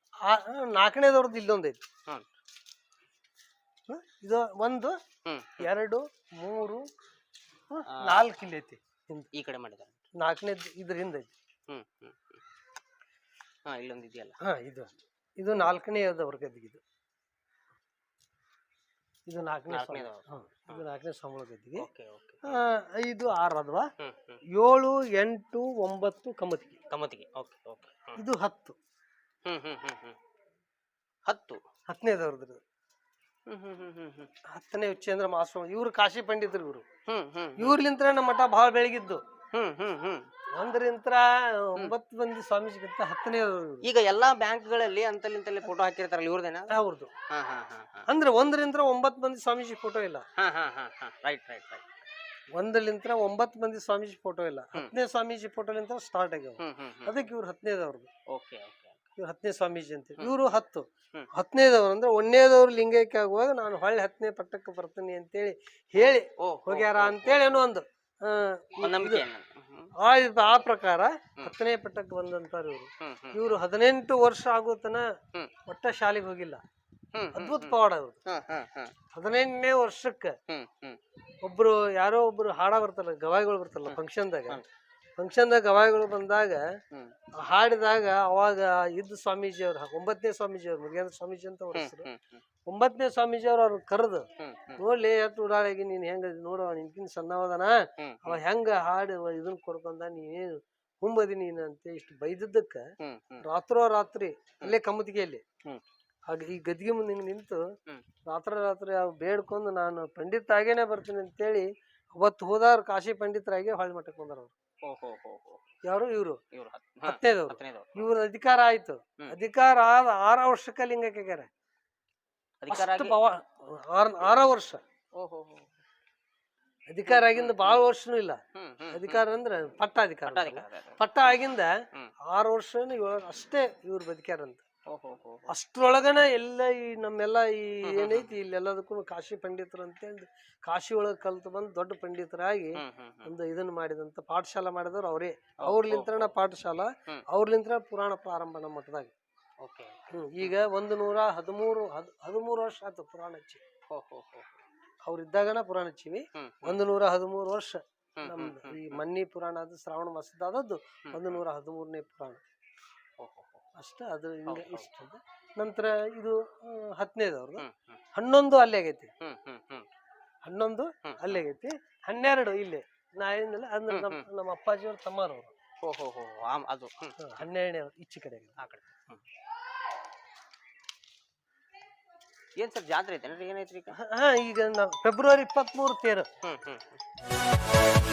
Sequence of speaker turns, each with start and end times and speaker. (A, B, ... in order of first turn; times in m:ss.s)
0:00.2-0:01.8 A
0:03.9-0:05.0 A
0:05.2-0:05.7 B
0:05.6-0:06.8 A
0:07.7-0:09.3 A
0:07.8-0:08.3 B
0:09.3-0:10.0 B
0:10.2-0:11.3 A
0:11.7-0:12.4 B
0:13.6-0:14.4 B
0:14.4-0:16.8 A
0:19.3-0:21.8 A
0:19.7-0:20.8 B
0:21.8-0:22.6 B
0:22.4-0:23.9 A
0:24.0-0:24.4 B
0:24.5-0:26.8 A
0:26.9-0:28.2 B
0:28.2-0:28.8 A
0:29.4-0:30.2 B
0:31.2-0:31.6 B
0:31.9-0:32.6 A
0:33.5-0:34.3 B
0:34.5-0:36.8 A
0:37.1-0:37.8 B
0:37.6-0:39.2 A
0:39.5-0:40.3 B
0:40.5-0:43.8 A
0:43.8-0:46.8 B
0:46.7-0:47.1 A
0:47.3-0:48.1 B
0:48.1-0:50.2 A
0:50.4-0:51.9 B
0:52.6-0:58.1 A
0:56.6-0:57.3 B
0:58.3-0:59.0 B
0:59.2-1:09.2 A
1:06.4-1:07.6 B
1:08.8-1:09.9 B
1:10.0-1:15.0 A
1:13.0-1:13.4 B
1:15.6-1:16.6 A
1:17.1-1:18.9 B
1:17.3-1:18.2 A
1:19.1-1:20.4 A
1:20.5-1:21.0 B
1:21.4-1:24.6 A
1:23.8-1:24.6 B
1:25.2-1:26.8 A
1:27.4-1:32.1 A
1:31.7-1:32.4 B
1:32.6-1:42.9 A
1:34.4-1:34.8 B
1:38.0-1:38.4 B
1:43.0-1:43.4 B
1:43.4-1:45.4 A
1:46.3-1:47.6 A
1:48.2-1:54.5 A
1:54.8-1:55.7 B
1:55.8-1:56.4 A
1:56.5-1:58.1 B
1:57.0-2:01.5 A
2:02.6-2:03.2 B
2:02.7-2:04.8 A
2:05.2-2:05.7 B
2:06.9-2:08.4 A
2:07.1-2:07.8 B
2:08.5-2:09.2 B
2:08.9-2:11.7 A
2:10.2-2:11.4 B
2:12.3-2:14.6 A
2:14.8-2:15.5 B
2:15.5-2:29.1 A
2:17.8-2:18.3 B
2:22.8-2:23.3 B
2:25.6-2:26.3 B
2:29.6-2:30.5 B
2:30.1-2:33.6 A
2:33.9-2:34.6 B
2:35.0-2:42.4 A
2:36.3-2:36.8 B
2:38.2-2:39.0 B
2:41.1-2:41.4 B
2:43.2-2:43.6 B
2:43.8-2:49.1 A
2:44.5-2:44.9 B
2:47.6-2:48.0 B
2:49.2-2:49.9 B
2:50.4-2:55.5 A
2:51.0-2:51.4 B
2:53.9-2:54.2 B
2:55.8-2:57.4 B
2:57.2-2:58.6 A
2:58.6-2:59.2 B
3:02.6-3:04.0 B
3:04.0-3:06.3 A
3:06.4-3:07.0 B